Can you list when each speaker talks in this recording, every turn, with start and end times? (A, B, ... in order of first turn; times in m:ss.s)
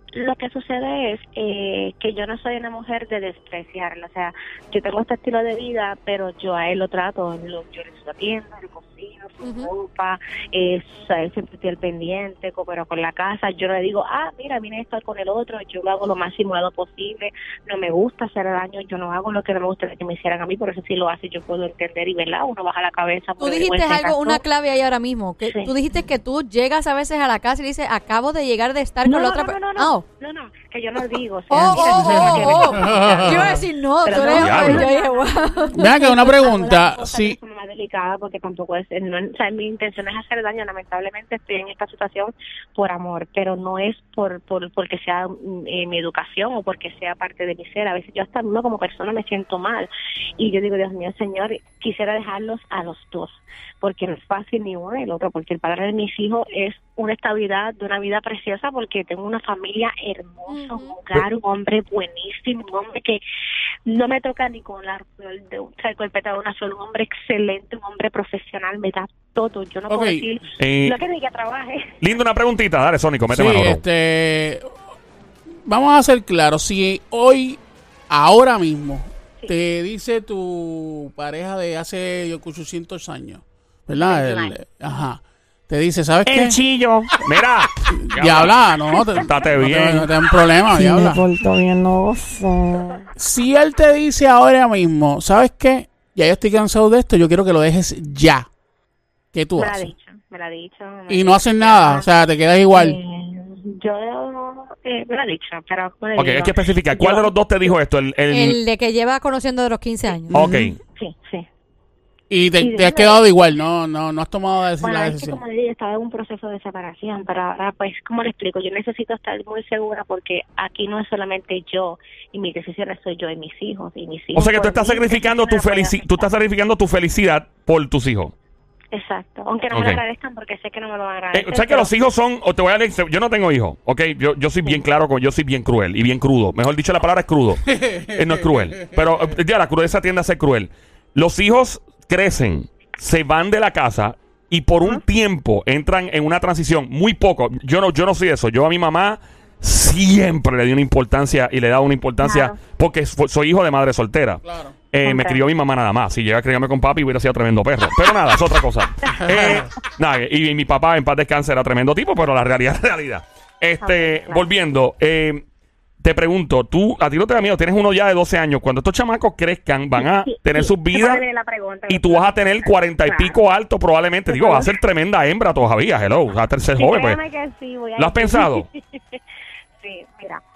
0:00.1-0:24.4 A
0:09.4-0:09.7 B
0:23.4-0:30.0 B
0:29.0-1:03.2 A
0:31.5-0:36.3 B
0:31.7-0:33.6 C
0:34.4-0:34.9 D
0:35.8-0:37.4 C
1:00.5-1:00.9 B
1:03.8-1:12.0 A
1:09.9-1:10.2 C
1:10.6-1:11.0 D
1:12.0-1:13.8 D
1:13.3-1:14.7 C
1:15.6-1:26.6 C
1:23.9-1:24.6 A
1:26.2-1:27.2 E
1:27.2-1:30.1 D
1:27.9-1:31.2 C
1:30.7-1:33.1 E
1:33.2-1:38.5 C
1:39.3-1:39.9 C
1:39.6-1:42.1 A
1:41.1-1:43.0 C
1:42.7-1:47.3 A
1:46.2-1:48.6 D
1:48.3-1:50.4 B
1:50.3-1:51.5 A
1:50.3-1:50.8 D
1:52.3-1:55.4 C
1:52.6-1:53.2 A
1:54.8-2:06.3 A
2:04.3-2:08.3 D
2:08.9-2:11.9 A
2:09.7-2:10.0 D
2:11.3-2:45.4 D
2:17.7-2:19.0 C
2:32.2-2:32.5 A
2:34.5-2:34.7 C
2:35.0-2:35.4 A
2:39.1-2:39.6 A
2:39.2-2:39.6 C
2:43.8-2:44.5 A
2:46.0-2:51.2 D
2:50.0-2:53.3 A
2:51.9-2:57.2 D
2:54.3-2:54.7 A
2:56.8-2:59.2 A
2:58.0-2:58.6 D
2:59.8-3:00.4 A